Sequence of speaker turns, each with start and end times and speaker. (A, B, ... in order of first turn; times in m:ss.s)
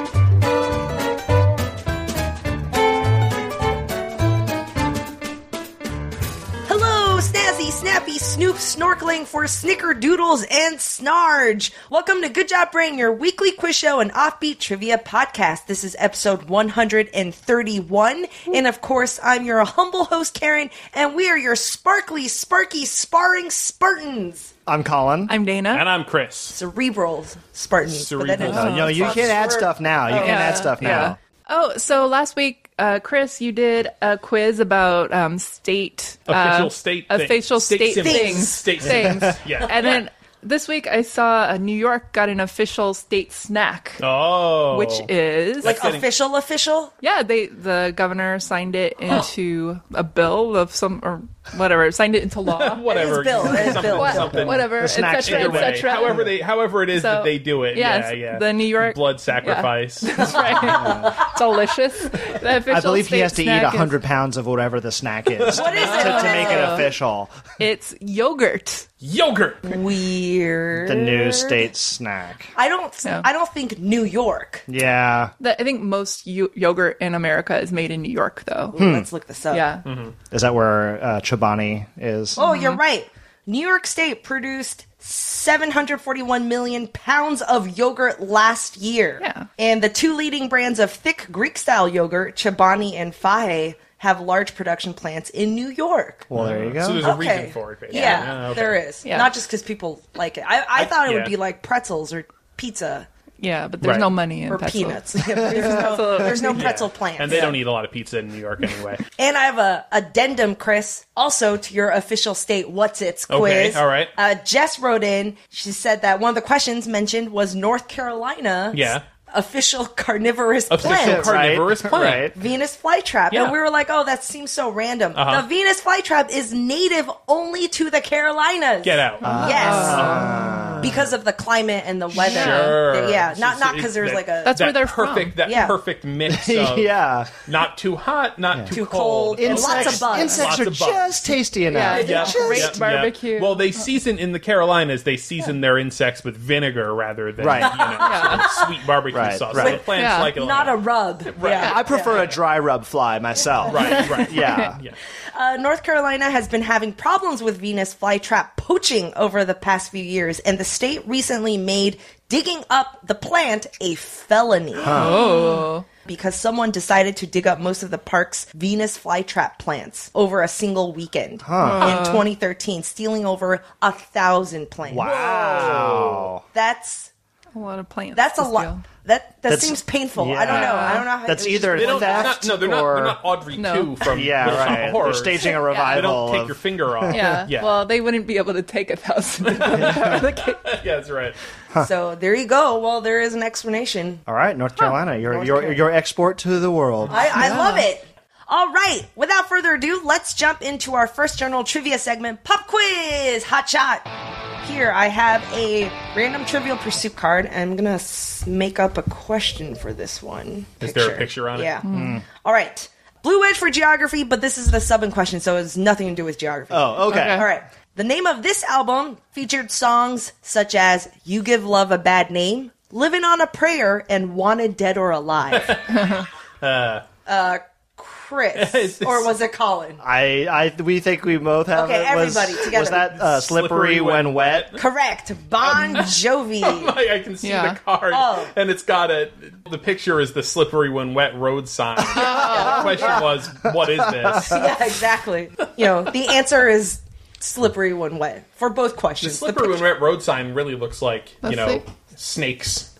0:06.6-0:24.5 A
0:24.6-0:25.4 B
0:25.3-0:25.8 C
0:25.7-0:26.6 D
0:26.5-0:30.7 A
0:27.9-0:29.3 D
0:28.4-0:31.2 B
0:28.4-0:29.0 C
0:30.1-0:44.0 C
0:36.3-0:40.0 D
0:38.0-0:38.6 A
0:38.8-0:39.4 B
0:44.0-0:46.0 D
0:44.7-0:45.7 C
0:45.6-0:46.9 A
0:47.0-0:56.3 C
0:52.5-1:00.8 D
0:52.9-0:54.4 A
0:54.7-0:56.3 B
0:56.9-1:03.9 C
1:00.6-1:01.2 A
1:00.6-1:01.3 B
1:02.6-1:07.4 B
1:05.4-1:06.4 D
1:05.5-1:06.9 A
1:05.9-1:06.8 C
1:07.6-1:08.9 C
1:09.0-1:09.7 D
1:09.6-1:11.6 A
1:10.7-1:12.5 B
1:12.6-1:14.6 A
1:14.7-1:15.3 B
1:15.4-1:18.7 C
1:18.7-1:19.6 A
1:18.8-1:19.1 B
1:19.5-1:19.8 C
1:19.8-1:20.1 D
1:20.3-1:22.4 B
1:22.4-1:22.8 C
1:22.4-1:36.3 A
1:29.2-1:29.5 C
1:36.3-1:37.1 B
1:36.3-1:38.8 D
1:37.0-1:43.0 A
1:37.9-1:38.3 C
1:39.0-1:39.3 C
1:40.9-1:41.3 D
1:43.4-1:46.7 C
1:43.8-1:44.2 D
1:44.5-1:47.5 A
1:45.5-1:46.2 B
1:46.5-1:49.0 D
1:49.2-2:10.1 A
1:53.3-1:54.1 D
1:58.7-1:59.0 D
2:00.7-2:02.3 D
2:00.8-2:02.3 B
2:03.3-2:03.6 D
2:05.1-2:05.5 D
2:08.8-2:10.6 D
2:09.2-2:11.0 B
2:09.2-2:10.6 C
2:10.8-2:14.6 A
2:12.1-2:21.4 D
2:12.1-2:12.8 C
2:14.4-2:15.4 C
2:15.4-2:15.8 A
2:16.3-2:17.3 B
2:18.7-2:20.5 A
2:19.4-2:22.8 B
2:21.7-2:23.7 C
2:21.7-2:22.6 A
2:21.9-2:32.3 D
2:27.4-2:28.0 B
2:27.6-2:28.7 A
2:28.0-2:28.5 C
2:29.1-2:29.8 B
2:29.5-2:29.8 A
2:29.9-2:30.3 C
2:30.3-2:32.2 A
2:31.4-2:31.8 C
2:31.6-2:34.8 B
2:33.7-2:35.0 D
2:33.9-2:34.7 C
2:35.3-2:45.1 A
2:44.8-2:45.2 B
2:44.8-2:45.8 C
2:46.0-2:55.9 A
2:51.4-2:52.0 B
2:51.6-2:52.2 C
2:54.9-2:56.4 B
2:55.0-2:56.2 D
2:56.5-2:57.1 A
2:57.5-2:58.8 C
2:58.1-3:02.4 A
2:59.4-3:03.2 B
3:00.5-3:01.1 C
3:01.7-3:07.8 D
3:03.5-3:03.9 C
3:04.0-3:07.4 B
3:04.4-3:04.8 C
3:05.4-3:06.0 C
3:07.1-3:10.6 C
3:09.4-3:11.4 D
3:09.8-3:10.1 B
3:11.8-3:14.2 A
3:14.3-3:17.4 B
3:15.3-3:15.8 A
3:17.1-3:24.1 A
3:17.3-3:17.8 C
3:24.6-3:31.8 A
3:30.8-3:31.8 D
3:31.8-3:32.2 C
3:31.9-3:32.2 B
3:32.4-3:45.8 A
3:36.7-3:37.5 B
3:37.1-3:37.4 C
3:45.5-3:47.0 D
3:45.9-3:46.2 C
3:47.2-3:50.0 A
3:48.6-3:49.3 D
3:50.0-3:54.7 B
3:51.7-3:53.1 A
3:52.9-3:54.8 D
3:54.8-3:57.0 A
3:55.6-4:04.7 D
3:57.4-3:57.8 C
3:58.1-3:58.5 A
4:02.1-4:03.2 C
4:02.1-4:04.8 B
4:04.5-4:09.8 A
4:09.2-4:12.9 D
4:11.4-4:11.8 C